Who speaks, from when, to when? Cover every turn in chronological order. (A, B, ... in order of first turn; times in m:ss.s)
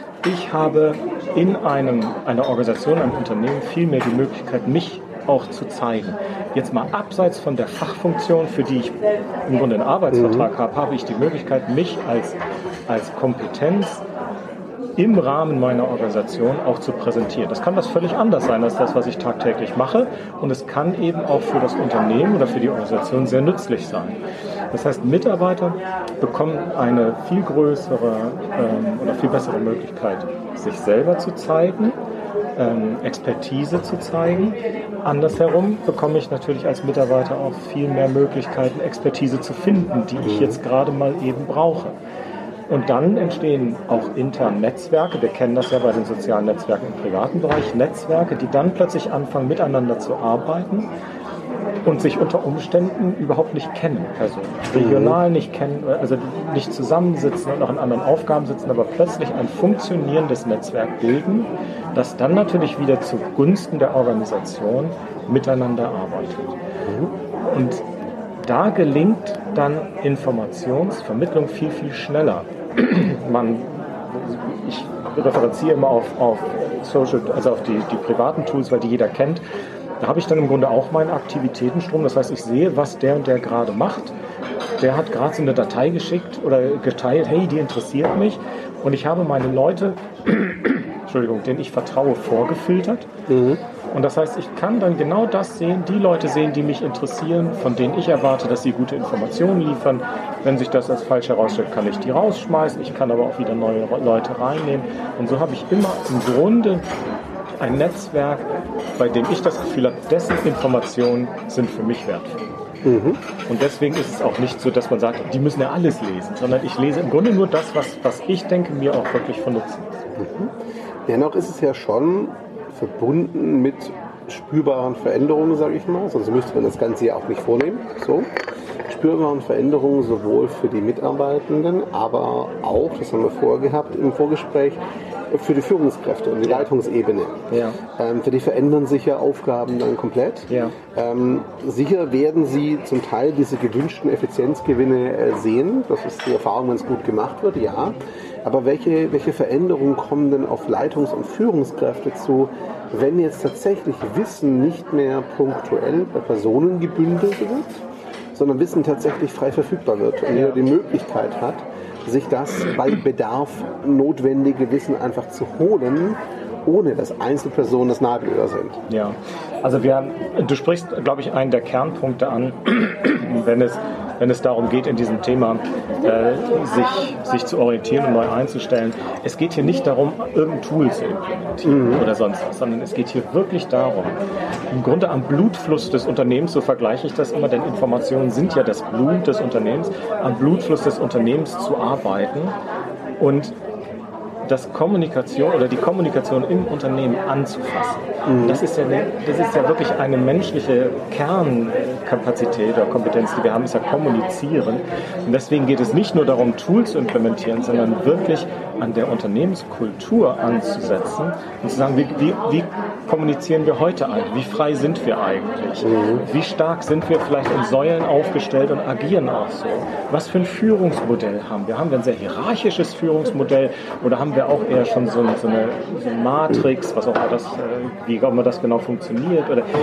0:00.2-0:14.0 A
0:10.1-0:10.5 B
0:15.0-0:24.2 A
0:24.7-0:31.9 A
0:32.6-0:41.9 A
0:40.2-0:40.6 B
0:42.7-0:50.9 A
0:51.8-1:06.6 A
0:54.7-0:55.2 B
1:06.8-1:07.1 B
1:07.4-1:07.8 A
1:08.4-1:19.4 A
1:20.0-1:24.1 A
1:24.8-1:33.1 A
1:33.3-1:33.6 B
1:33.9-1:46.8 A
1:47.6-1:52.4 A
1:52.8-1:53.2 B
1:53.5-2:00.0 A
2:00.2-2:00.5 B
2:01.1-2:08.3 B
2:08.9-2:14.8 B
2:15.3-2:37.8 B
2:17.5-2:17.8 A
2:20.5-2:20.7 A
2:38.3-2:48.8 B
2:40.3-2:40.6 A
2:48.9-3:04.2 A
3:01.6-3:02.0 B
3:04.7-3:12.5 A
3:13.2-3:13.6 A
3:14.4-3:49.6 A
3:18.2-3:18.6 B
3:35.8-3:36.2 B